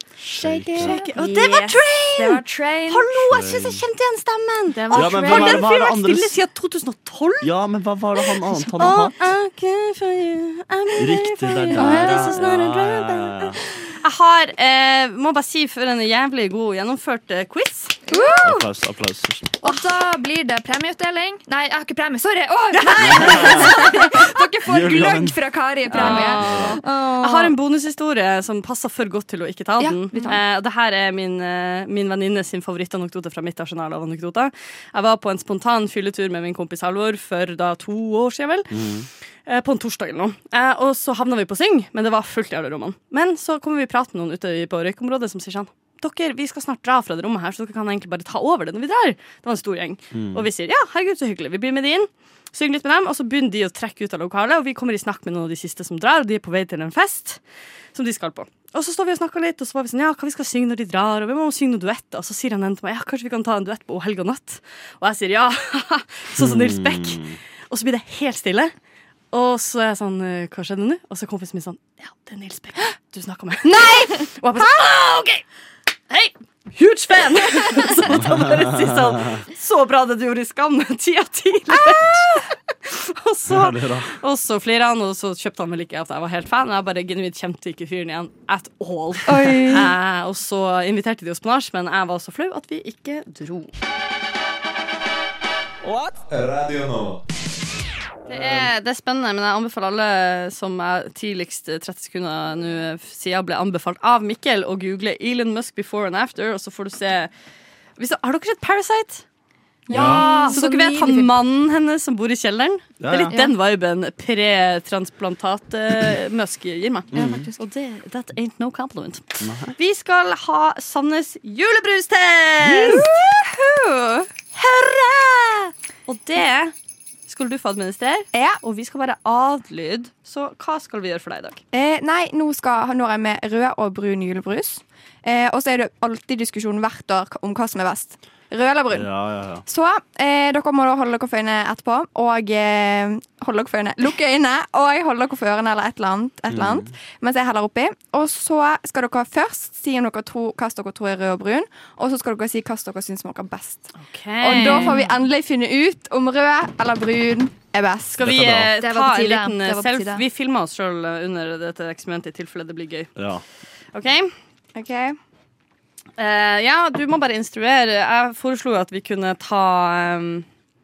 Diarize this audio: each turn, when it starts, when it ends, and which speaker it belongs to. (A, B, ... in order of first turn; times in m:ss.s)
0:00.2-0:01.0 A
0:00.5-0:07.5 B
0:00.7-0:03.3 C
0:03.3-0:03.8 A
0:04.8-0:05.7 C
0:04.9-0:06.4 A
0:07.4-0:09.2 A
0:08.2-0:18.1 B
0:11.0-0:13.6 A
0:18.1-0:18.7 C
0:18.4-0:19.5 A
0:19.6-0:27.6 C
0:22.7-0:23.9 B
0:23.0-0:26.8 A
0:25.9-0:38.8 B
0:30.1-0:30.4 C
0:38.7-0:39.1 A
0:39.4-0:57.4 B
0:50.1-0:50.5 A
0:57.9-1:08.7 B
1:06.4-1:07.4 A
1:09.3-1:15.4 B
1:13.6-1:14.2 D
1:16.1-1:33.7 B
1:18.0-1:19.4 A
1:23.5-1:24.2 A
1:29.3-1:29.9 D
1:38.3-1:47.3 B
1:48.0-1:49.2 B
1:49.9-1:50.6 D
1:49.9-1:51.3 C
1:49.9-1:50.2 A
1:50.0-2:03.1 B
1:53.0-1:53.4 A
1:57.1-1:57.5 A
1:57.1-1:57.6 C
1:59.4-1:59.8 A
2:02.8-2:04.3 D
2:04.5-2:06.8 B
2:07.3-2:11.6 B
2:08.3-2:08.6 D
2:11.7-2:19.1 D
2:18.9-2:19.6 A
2:19.6-2:38.2 D
2:26.5-2:26.9 A
2:34.0-2:35.1 B
2:38.1-2:43.1 B
2:38.2-2:38.8 A
2:38.8-2:40.2 C
2:43.2-2:43.4 A
2:43.9-2:44.3 B
2:44.8-2:45.2 D
2:46.2-2:50.5 B